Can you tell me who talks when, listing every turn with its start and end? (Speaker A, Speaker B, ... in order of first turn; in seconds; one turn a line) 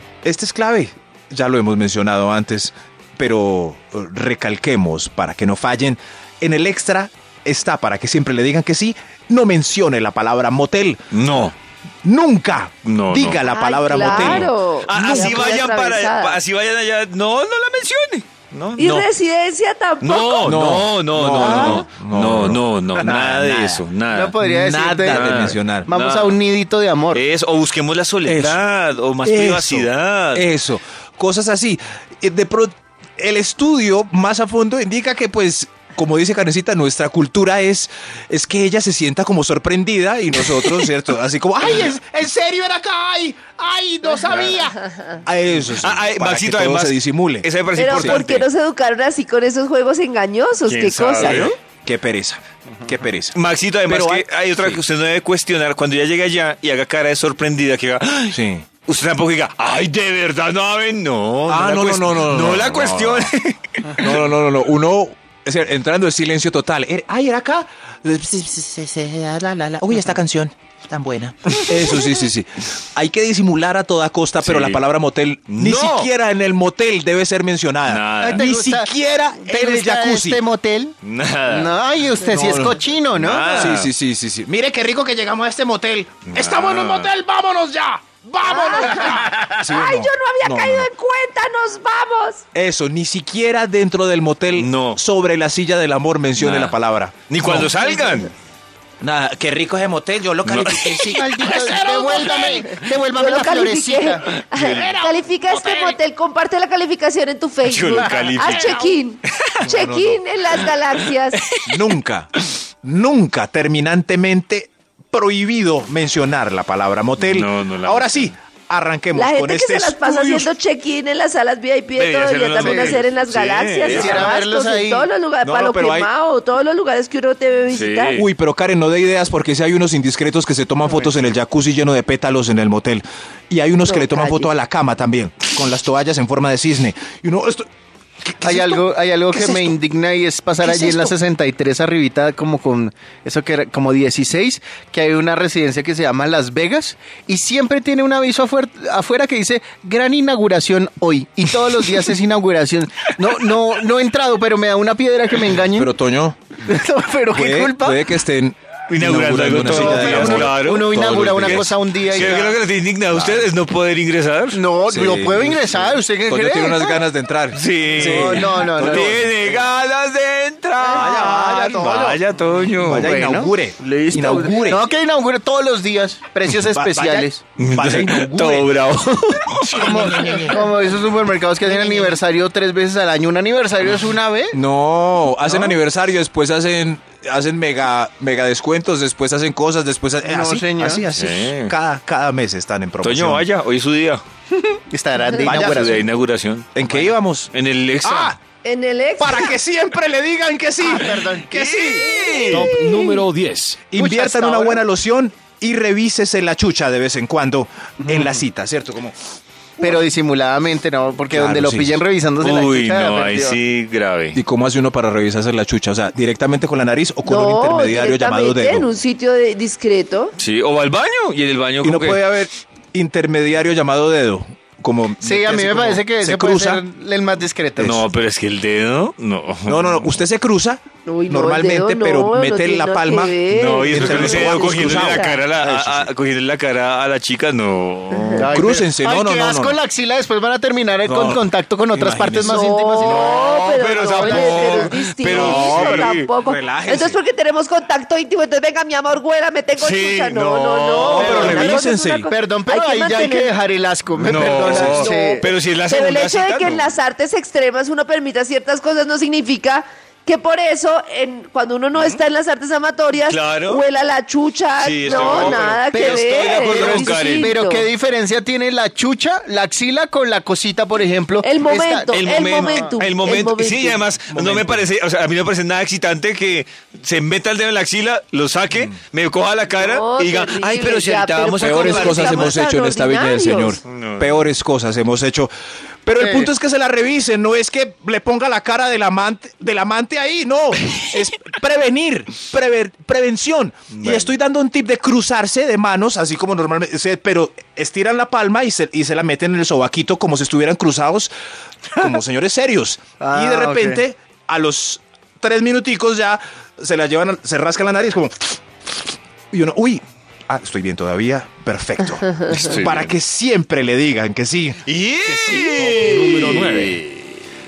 Speaker A: 0.2-11.2
Speaker B: 11.1-11.5
Speaker A: 12.0-15.6
Speaker B: 12.8-13.4
Speaker C: 13.4-16.4
Speaker B: 13.9-19.1
Speaker C: 18.8-20.7
Speaker B: 20.0-24.4
Speaker A: 20.4-23.9
Speaker D: 21.4-21.8
Speaker D: 24.1-27.2
Speaker A: 24.4-25.9
Speaker B: 25.1-26.4
Speaker B: 27.1-30.5
Speaker A: 28.2-28.6
Speaker A: 29.2-48.2
Speaker B: 44.3-44.5
Speaker B: 45.7-48.5
Speaker C: 47.8-51.5
Speaker B: 50.6-51.5
Speaker A: 51.2-54.8
Speaker B: 53.3-64.2
Speaker A: 58.3-58.7
Speaker A: 61.5-63.3
Speaker A: 63.9-80.4
Speaker B: 74.4-74.8
Speaker B: 75.5-76.1
Speaker B: 77.9-78.5
Speaker D: 78.2-78.9
Speaker D: 79.4-81.0
Speaker B: 81.0-81.8
Speaker D: 81.5-83.7
Speaker A: 82.2-82.8
Speaker B: 83.1-83.9
Speaker A: 83.5-90.9
Speaker B: 86.3-87.1
Speaker C: 88.4-92.4
Speaker A: 92.5-97.8
Speaker B: 94.5-95.0
Speaker B: 96.4-96.8
Speaker B: 97.3-98.3
Speaker A: 99.0-102.8
Speaker B: 100.4-101.7
Speaker D: 101.1-104.2
Speaker C: 103.1-111.4
Speaker A: 104.5-106.0
Speaker B: 104.5-104.9
Speaker B: 107.6-109.6
Speaker A: 108.3-108.9
Speaker A: 109.6-110.2
Speaker B: 111.3-111.9
Speaker A: 111.7-112.3
Speaker A: 112.8-120.5
Speaker B: 117.2-118.3
Speaker C: 119.1-128.2
Speaker B: 122.0-124.3
Speaker D: 122.6-123.0
Speaker D: 123.8-125.1
Speaker A: 125.4-126.1
Speaker B: 127.7-128.3
Speaker A: 128.1-137.7
Speaker C: 133.9-134.5
Speaker A: 138.2-139.7
Speaker D: 138.4-155.9
Speaker A: 140.6-141.0
Speaker A: 155.7-156.4
Speaker D: 156.6-158.0
Speaker A: 157.3-162.5
Speaker B: 158.9-164.6
Speaker D: 159.6-162.6
Speaker A: 163.1-163.5
Speaker D: 164.5-167.0
Speaker A: 164.8-169.3
Speaker B: 167.5-173.1
Speaker D: 167.9-169.3
Speaker D: 170.8-172.2
Speaker A: 170.9-172.2
Speaker A: 172.8-174.9
Speaker D: 172.9-177.4
Speaker A: 176.5-178.7
Speaker B: 177.6-180.1
Speaker A: 179.6-180.7
Speaker D: 179.6-184.6
Speaker A: 184.5-193.4
Speaker D: 190.2-191.0
Speaker B: 191.1-191.7
Speaker B: 193.0-194.2
Speaker D: 194.8-196.1
Speaker A: 195.4-196.0
Speaker B: 195.4-197.0
Speaker A: 196.7-197.5
Speaker B: 197.5-198.3
Speaker A: 198.0-198.4
Speaker C: 198.6-199.5
Speaker A: 199.2-202.7
Speaker D: 200.8-201.5
Speaker B: 201.5-202.7
Speaker C: 202.0-203.2
Speaker E: 202.5-203.9
Speaker A: 203.9-209.2
Speaker D: 203.9-204.8
Speaker D: 208.0-208.3
Speaker D: 209.8-213.6
Speaker A: 211.3-212.0
Speaker B: 212.4-214.4
Speaker A: 214.3-218.9
Speaker C: 217.2-220.3
Speaker B: 220.4-222.2
Speaker A: 221.8-226.8
Speaker D: 225.2-228.0
Speaker B: 227.8-230.1
Speaker A: 229.7-236.1
Speaker C: 231.1-235.4
Speaker B: 233.5-238.5
Speaker D: 238.3-244.9
Speaker A: 238.4-239.8
Speaker A: 241.0-242.6
Speaker C: 242.4-253.5
Speaker B: 243.0-246.3
Speaker A: 245.2-247.2
Speaker B: 249.8-251.6
Speaker A: 251.0-252.3
Speaker D: 251.1-251.8
Speaker D: 252.3-255.4
Speaker B: 254.2-256.8
Speaker A: 254.6-255.0
Speaker C: 254.8-267.9
Speaker B: 263.2-263.8
Speaker B: 264.8-267.5
Speaker D: 265.1-272.9
Speaker A: 265.1-265.5
Speaker C: 271.4-274.0
Speaker B: 272.1-282.5
Speaker A: 274.4-274.8
Speaker C: 279.8-283.8
Speaker A: 281.6-285.5
Speaker B: 283.8-284.5
Speaker A: 286.0-301.3
Speaker D: 286.2-286.5
Speaker B: 293.9-294.3
Speaker A: 301.9-308.6
Speaker D: 303.2-304.0
Speaker A: 309.5-316.9
Speaker B: 312.5-313.1
Speaker B: 314.9-317.4
Speaker E: 315.9-317.0